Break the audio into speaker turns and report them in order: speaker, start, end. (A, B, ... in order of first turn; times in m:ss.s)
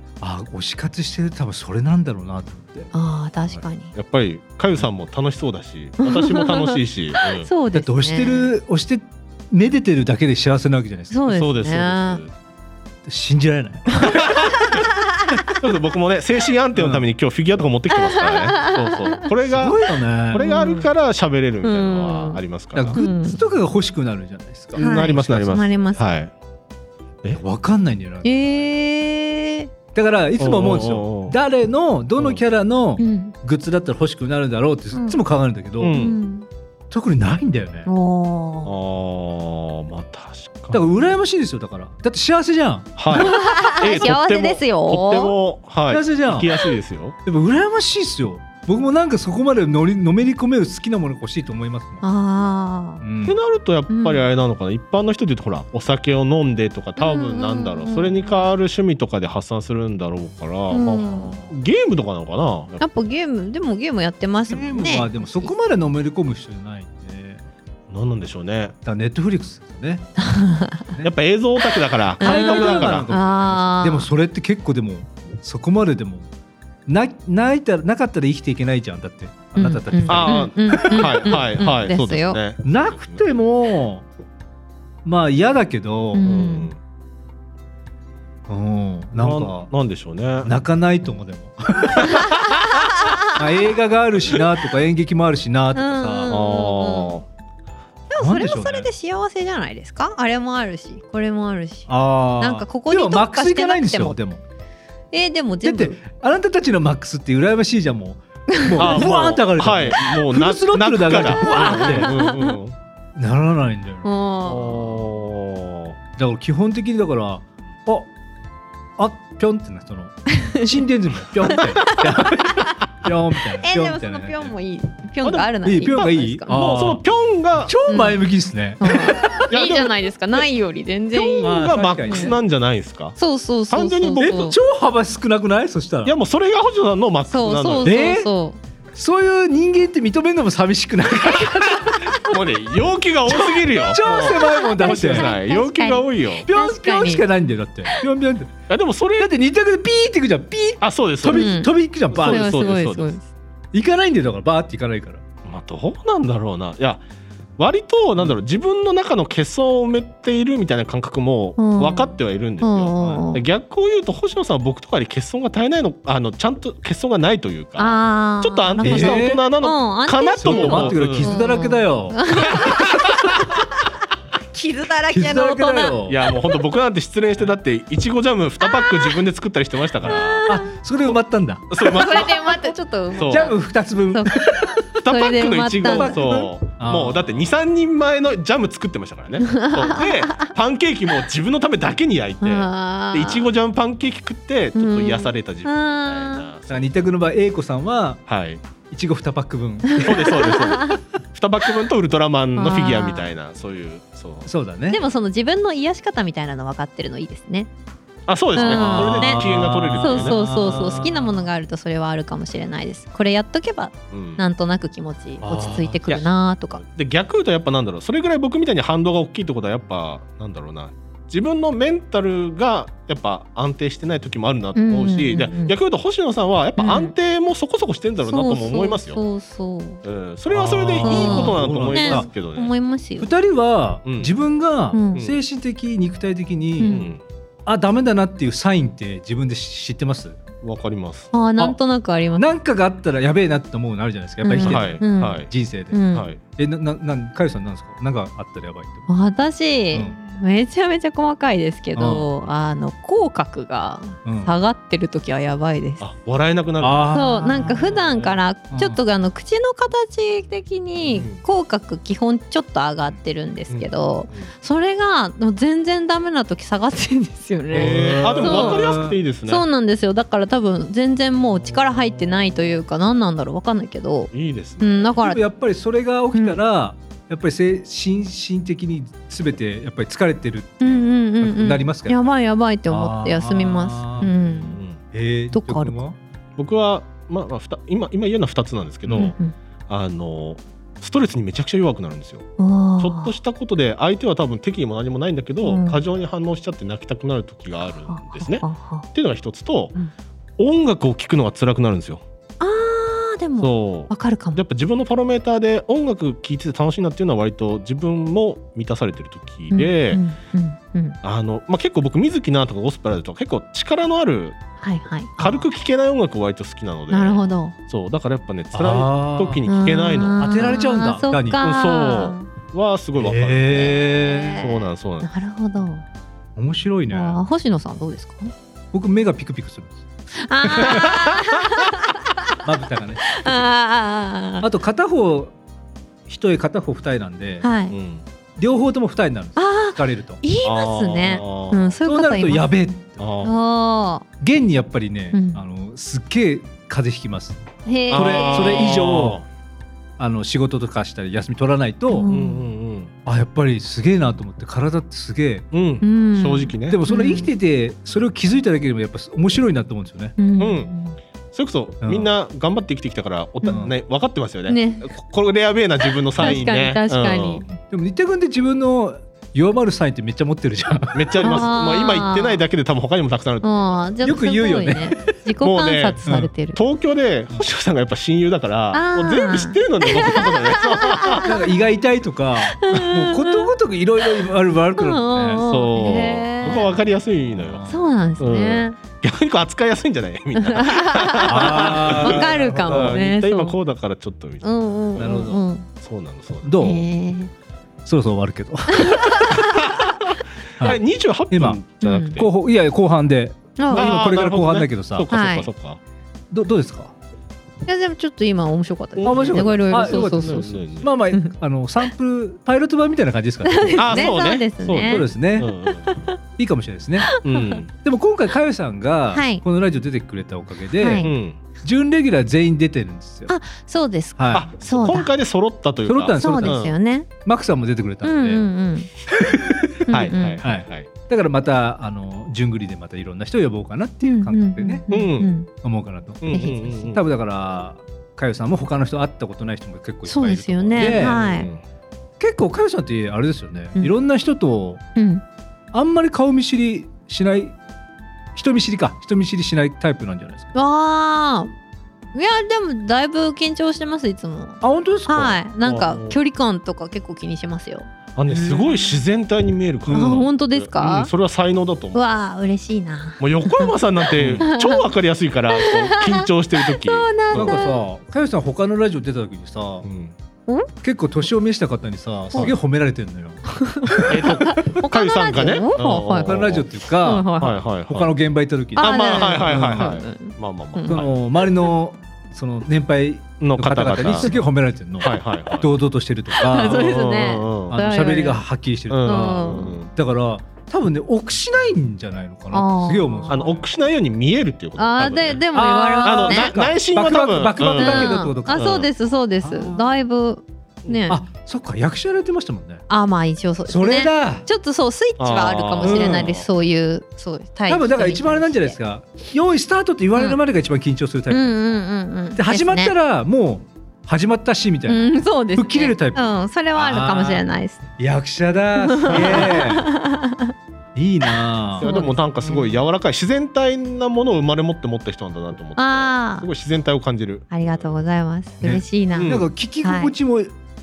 0:00.2-0:02.9 A
0:02.9-0:03.9 B
0:03.9-0:07.5 C
0:06.0-0:08.5 B
0:07.7-0:11.2 A
0:11.1-0:12.2 B
0:11.3-0:12.3 C
0:13.0-0:14.0 A
0:13.9-0:15.5 B
0:14.0-0:14.9 C
0:15.4-0:23.0 C
0:16.7-0:17.0 A
0:17.9-0:19.2 B
0:19.4-0:20.5 A
0:20.4-0:20.9 B
0:21.6-0:23.4 B
0:22.7-0:25.2 A
0:24.7-0:26.3 C
0:24.8-0:26.0 B
0:27.4-0:28.7 A
0:28.2-0:29.7 B
0:29.9-0:36.0 A
0:30.4-0:31.4 C
0:33.0-0:33.3 B
0:34.9-0:35.2 B
0:35.8-0:36.2 C
0:35.9-0:36.5 B
0:36.9-0:37.9 A
0:37.8-0:38.7 B
0:38.6-0:40.9 C
0:40.7-0:43.3 A
0:43.0-0:47.2 C
0:43.1-0:45.3 B
0:45.9-0:46.5 A
0:47.2-0:52.0 A
0:52.0-0:53.0 B
0:53.0-0:53.4 A
0:53.2-1:02.8 C
0:53.9-0:54.2 B
0:57.0-0:58.5 B
1:00.7-1:01.4 B
1:01.1-1:01.5 A
1:02.8-1:05.5 B
1:04.5-1:07.4 A
1:07.9-1:08.7 C
1:08.8-1:10.1 A
1:10.2-1:10.9 B
1:11.0-1:13.1 C
1:12.2-1:14.1 B
1:12.2-1:16.3 A
1:16.8-1:21.4 A
1:19.6-1:22.4 B
1:20.1-1:23.2 C
1:22.6-1:24.0 A
1:25.0-1:26.3 A
1:26.1-1:26.7 B
1:26.2-1:26.8 C
1:28.5-1:29.7 A
1:29.2-1:30.5 C
1:30.4-1:32.3 A
1:32.0-1:32.7 C
1:32.1-1:33.4 B
1:33.3-1:36.3 A
1:35.7-1:37.2 B
1:36.3-1:37.2 C
1:38.1-1:44.2 B
1:38.2-1:38.9 A
1:41.9-1:44.4 A
1:45.1-1:46.0 B
1:45.6-1:52.2 A
1:48.8-1:52.7 C
1:51.5-1:52.5 B
1:53.2-1:54.1 A
1:54.0-1:54.9 B
1:54.4-1:56.0 C
1:56.2-1:58.1 A
1:59.0-2:04.5 A
2:00.3-2:00.7 B
2:01.5-2:02.8 B
2:03.6-2:06.6 B
2:05.2-2:07.7 C
2:05.6-2:07.0 A
2:07.6-2:09.4 A
2:07.9-2:08.2 B
2:08.8-2:12.3 B
2:09.5-2:10.0 C
2:11.1-2:13.2 C
2:11.4-2:12.4 A
2:13.2-2:14.6 B
2:13.7-2:14.5 C
2:14.1-2:16.1 A
2:16.0-2:18.0 C
2:17.3-2:18.6 B
2:17.8-2:18.3 A
2:18.9-2:22.2 A
2:21.8-2:26.5 C
2:23.6-2:25.3 A
2:24.2-2:27.2 B
2:26.4-2:28.5 A
2:28.7-2:29.3 C
2:29.2-2:32.7 A
2:30.8-2:33.1 C
2:31.2-2:33.2 B
2:33.7-2:35.2 A
2:35.4-2:37.0 C
2:37.6-2:51.4 C
2:41.6-2:43.4 B
2:43.0-2:43.2 A
2:47.8-2:53.8 B
2:48.8-2:49.4 A
2:50.4-2:52.2 A
2:52.5-2:53.4 C
2:54.5-2:56.6 B
2:55.1-2:56.2 A
2:56.1-3:01.2 C
2:58.6-2:59.2 B
3:00.0-3:00.7 B
3:00.0-3:01.7 A
3:01.7-3:03.5 C
3:01.8-3:03.6 B
3:03.3-3:04.8 A
3:04.1-3:06.4 B
3:05.0-3:16.9 C
3:05.8-3:07.5 A
3:09.4-3:10.5 B
3:12.4-3:13.5 B
3:14.7-3:16.4 B
3:16.7-3:18.2 A
3:18.3-3:18.6 C
3:18.9-3:20.3 A
3:19.9-3:21.0 B
3:20.0-3:24.5 C
3:22.5-3:23.3 B
3:24.4-3:25.0 A
3:24.9-3:27.7 B
3:28.3-3:31.0 C
3:28.6-3:31.5 A
3:28.6-3:36.8 B
3:34.1-3:34.4 C
3:35.4-3:36.0 A
3:35.5-3:36.3 C
3:36.8-3:49.2 C
3:44.8-3:45.7 B
3:46.8-3:47.1 B
3:48.2-3:50.0 B
3:50.0-3:52.7 C
3:50.5-3:52.3 A
3:51.0-3:53.3 B
3:53.2-3:57.0 A
3:54.0-3:54.3 C
3:54.9-3:55.2 B
3:56.8-3:57.1 B
3:56.8-3:57.2 C
3:57.6-4:00.4 A
4:00.6-4:01.3 C
4:01.3-4:02.5 B
4:02.4-4:06.0 A
4:04.4-4:06.3 B
4:04.6-4:05.5 C
4:06.1-4:06.4 C
4:06.5-4:09.1 A
4:09.1-4:16.0 B
4:11.9-4:12.3 A
4:14.2-4:14.5 A
4:16.0-4:18.4 C
4:16.8-4:17.9 A
4:17.1-4:28.9 B
4:18.7-4:19.0 A
4:21.1-4:21.4 C
4:23.7-4:24.5 C
4:27.7-4:29.2 A
4:27.7-4:29.6 C
4:29.4-4:35.4 B
4:34.3-4:35.2 C
4:35.2-4:42.2 A
4:40.8-4:44.8 B
4:42.9-4:44.3 A
4:44.2-4:45.0 C
4:45.1-4:46.2 A
4:45.5-4:46.0 B
4:46.6-4:49.3 C
4:49.1-4:49.3 A
4:49.1-4:49.5 B
4:49.9-4:52.5 C
4:52.6-4:53.3 B
4:53.0-5:00.0 C
4:55.6-4:56.0 B
4:58.1-4:59.1 B
5:00.6-5:02.2 C
5:02.6-5:04.6 B
5:03.6-5:10.2 C
5:09.7-5:11.2 B
5:11.2-5:14.6 C
5:14.8-5:15.7 B
5:15.4-5:20.8 C
5:17.1-5:17.8 B
5:18.7-5:19.6 A
5:19.6-5:22.5 B
5:20.4-5:21.6 A
5:21.6-5:25.3 C
5:23.2-5:24.6 A
5:23.7-5:26.0 B
5:26.6-5:27.4 A
5:27.1-5:28.5 B
5:28.9-5:30.0 A
5:30.3-5:32.6 B
5:30.6-5:31.2 A
5:30.9-5:31.3 C
5:32.6-5:33.7 A
5:33.2-5:34.7 B
5:34.6-5:35.5 A
5:36.3-5:37.7 A
5:37.6-5:38.0 B
5:37.9-5:38.2 C
5:38.6-5:40.4 A
5:39.6-5:42.7 B
5:40.6-5:42.0 C
5:42.0-5:43.2 A
5:43.2-5:43.6 C
5:43.4-5:44.2 B
5:44.4-5:49.4 A
5:45.3-5:45.6 B
5:47.8-5:49.0 B
5:48.1-5:49.4 C
5:50.2-5:52.3 A
5:52.1-5:52.7 B
5:52.3-5:53.1 C
5:53.2-5:55.6 A
5:55.7-5:57.0 C
5:56.0-5:57.5 B
5:56.9-6:00.3 A
6:00.4-6:01.2 B
6:00.6-6:00.9 C
6:01.5-6:07.6 C
6:02.0-6:02.3 A
6:03.6-6:03.9 B
6:04.7-6:05.1 B
6:06.4-6:06.7 A
6:06.4-6:07.7 B
6:07.9-6:11.7 A
6:11.1-6:14.0 C
6:11.4-6:12.6 B
6:13.6-6:16.8 B
6:14.2-6:15.2 A
6:15.6-6:21.5 C
6:18.9-6:21.5 B
6:21.4-6:25.6 A
6:22.7-6:23.7 B
6:25.0-6:26.9 B
6:25.6-6:27.8 C
6:26.6-6:28.2 A
6:27.9-6:29.0 B
6:28.4-6:37.0 C
6:30.6-6:33.8 B
6:31.5-6:33.2 A
6:34.6-6:35.9 B
6:35.2-6:35.6 A
6:36.6-6:37.0 A
6:36.8-6:37.5 B
6:38.0-6:39.6 A
6:38.9-6:40.1 B
6:39.6-6:42.5 C
6:40.8-6:45.3 A
6:42.0-6:42.4 B
6:43.8-6:44.1 B
6:43.9-6:46.0 C
6:45.3-6:45.7 B
6:46.5-6:47.1 A
6:47.8-6:51.5 B
6:49.2-6:51.1 C
6:49.2-6:54.4 A
6:53.6-6:55.3 B
6:54.0-6:56.2 C
6:55.0-6:55.7 A
6:55.8-6:56.4 B
6:56.6-6:57.4 A
6:57.2-6:57.8 B
6:57.4-6:57.9 C
6:57.9-7:03.5 A
6:59.3-6:59.6 B
7:01.0-7:01.3 B
7:01.1-7:01.6 C
7:03.5-7:05.3 B
7:04.4-7:04.6 A
7:04.5-7:06.9 C
7:06.0-7:06.8 A
7:06.4-7:07.3 B
7:07.4-7:08.7 A
7:08.2-7:09.1 B
7:09.3-7:15.0 A
7:10.1-7:10.6 B
7:10.1-7:11.1 C
7:14.2-7:15.7 B
7:15.1-7:15.5 C
7:15.7-7:21.4 A
7:16.4-7:17.2 C
7:16.5-7:17.0 B
7:20.2-7:21.7 B
7:21.0-7:21.8 C
7:22.4-7:25.0 A
7:25.2-7:25.4 B
7:25.9-7:27.8 A
7:28.5-7:30.7 A
7:30.7-7:31.7 B
7:32.3-7:39.2 B
7:34.8-7:35.5 A
7:35.3-7:36.4 C
7:38.4-7:42.2 C
7:38.5-7:38.8 A
7:40.0-7:40.5 A
7:40.1-7:41.3 B
7:42.1-7:43.9 B
7:43.4-7:47.8 C
7:44.5-7:45.1 B
7:45.7-7:48.0 B
7:47.5-7:50.0 A
7:50.0-7:50.3 C
7:51.0-7:54.8 A
7:53.7-7:57.8 B
7:54.3-7:56.9 C
7:56.4-7:57.5 A
7:57.6-7:58.3 C
7:58.1-8:00.2 A
7:58.9-8:01.2 B
7:59.0-8:01.3 C
8:01.0-8:07.2 A
8:03.6-8:04.5 C
8:05.2-8:05.9 C
8:06.6-8:08.6 B
8:06.8-8:08.0 C
8:07.9-8:13.8 A
8:09.1-8:10.1 C
8:09.2-8:10.0 B
8:12.7-8:13.6 B
8:13.5-8:15.6 C
8:15.0-8:16.7 B
8:15.7-8:19.0 A
8:16.2-8:19.1 C
8:17.8-8:21.4 B
8:19.6-8:20.1 A
8:21.0-8:21.3 C
8:21.3-8:23.0 A
8:23.1-8:29.0 B
8:23.9-8:24.6 A
8:25.4-8:26.6 C
8:26.0-8:26.6 A
8:27.9-8:31.8 A
8:31.5-8:33.1 B
8:32.6-8:37.6 A
8:35.1-8:38.0 B
8:38.2-8:40.1 A
8:39.0-8:40.7 B
8:39.3-8:39.8 C
8:41.1-8:42.2 A
8:41.4-8:43.0 B
8:42.0-8:48.1 C
8:46.0-8:46.7 B
8:47.7-8:50.3 B
8:48.8-8:50.7 A
8:49.4-8:49.7 C